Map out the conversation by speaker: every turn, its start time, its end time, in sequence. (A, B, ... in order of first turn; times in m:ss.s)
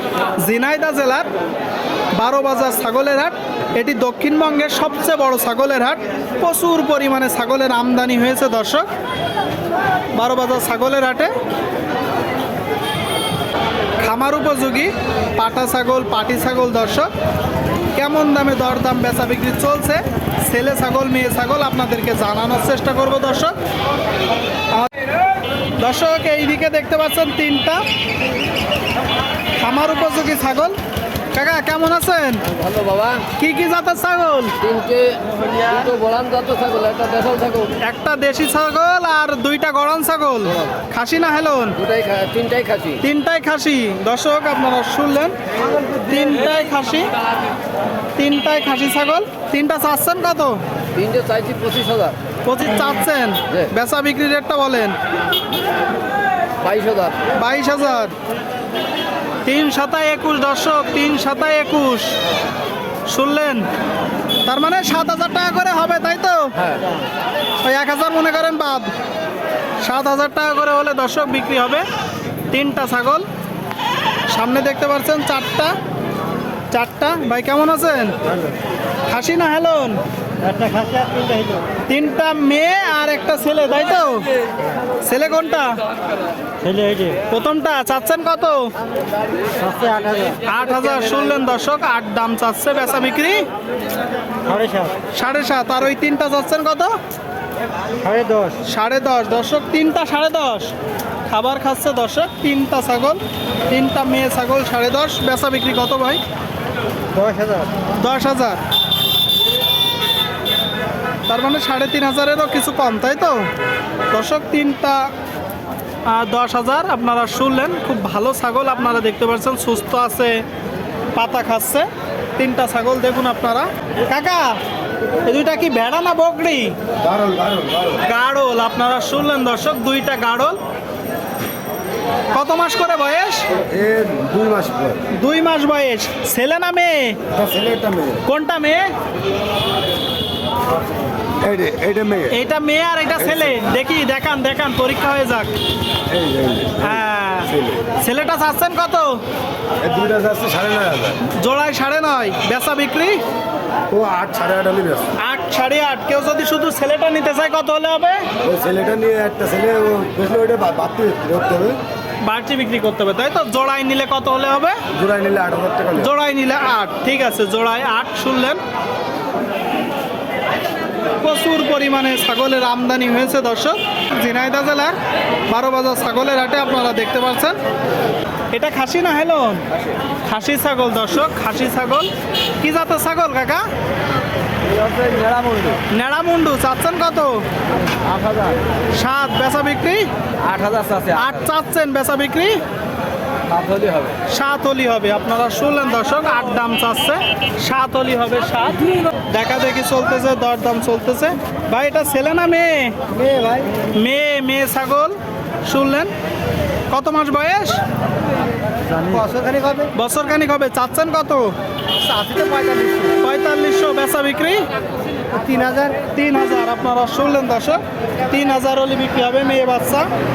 0:00.4-0:01.3 A
0:02.1-0:08.9 A
0:10.1-0:11.3 A
0:14.0-0:17.1 A
0:18.0-0:23.6 A
0:25.8-0:27.8 A
0:29.6-0:30.8 A
0:31.3-0:32.5 A
0:32.5-0:33.2 B
0:33.4-0:34.6 A
0:34.6-0:37.7 B
0:37.8-0:41.8 A
0:41.8-0:43.0 B
0:43.0-0:45.4 A
0:46.0-0:47.1 A
0:48.2-0:50.6 A
0:51.0-0:52.2 B
0:52.4-0:55.0 A
0:56.6-0:57.2 B
0:57.3-0:58.2 A
0:59.4-1:02.2 A
1:03.1-1:03.7 A
1:04.4-1:06.6 A
1:07.6-1:08.9 A
1:09.8-1:11.9 A
1:12.5-1:13.3 A
1:14.3-1:15.8 A
1:16.7-1:18.2 A
1:19.1-1:20.0 A
1:20.4-1:21.6 C
1:21.9-1:24.3 A
1:25.0-1:25.8 A
1:26.6-1:27.2 C
1:27.2-1:28.7 A
1:29.6-1:30.4 C
1:30.4-1:33.5 A
1:34.4-1:35.0 C
1:35.1-1:37.0 A
1:38.0-1:38.6 C
1:38.6-1:40.7 A
1:41.3-1:46.2 A
1:47.2-1:47.7 C
1:48.0-1:48.6 A
1:51.3-1:53.5 A
1:54.1-1:55.1 A
1:56.1-2:00.4 A
2:01.2-2:04.6 A
2:05.2-2:06.8 A
2:07.0-2:08.0 D
2:08.0-2:10.6 A
2:12.3-2:13.5 A
2:13.5-2:15.0 D
2:15.2-2:17.2 A
2:17.3-2:18.2 D
2:18.2-2:18.9 A
2:21.4-2:22.3 D
2:22.3-2:25.5 A
2:26.1-2:27.0 D
2:26.8-2:29.2 A
2:27.5-2:27.8 D
2:29.8-2:31.2 D
2:31.2-2:33.2 A
2:33.9-2:35.1 D
2:35.2-2:38.3 A
2:38.4-2:41.8 D
2:42.2-2:44.8 A
2:44.9-2:46.1 D
2:46.0-2:48.6 A
2:51.2-2:54.9 A
2:55.5-2:57.6 A
2:58.5-2:59.7 A
3:00.2-3:03.7 A
3:04.7-3:05.8 B
3:05.9-3:07.4 A
3:08.0-3:08.6 B
3:08.9-3:10.1 A
3:10.4-3:11.4 B
3:11.1-3:12.6 A
3:13.5-3:14.2 B
3:14.3-3:23.0 A
3:23.1-3:23.7 C
3:23.9-3:26.1 A
3:26.9-3:27.8 A
3:28.9-3:29.9 C
3:29.9-3:31.6 A
3:32.0-3:33.1 C
3:33.1-3:34.7 A
3:35.3-3:36.0 C
3:36.0-3:40.1 A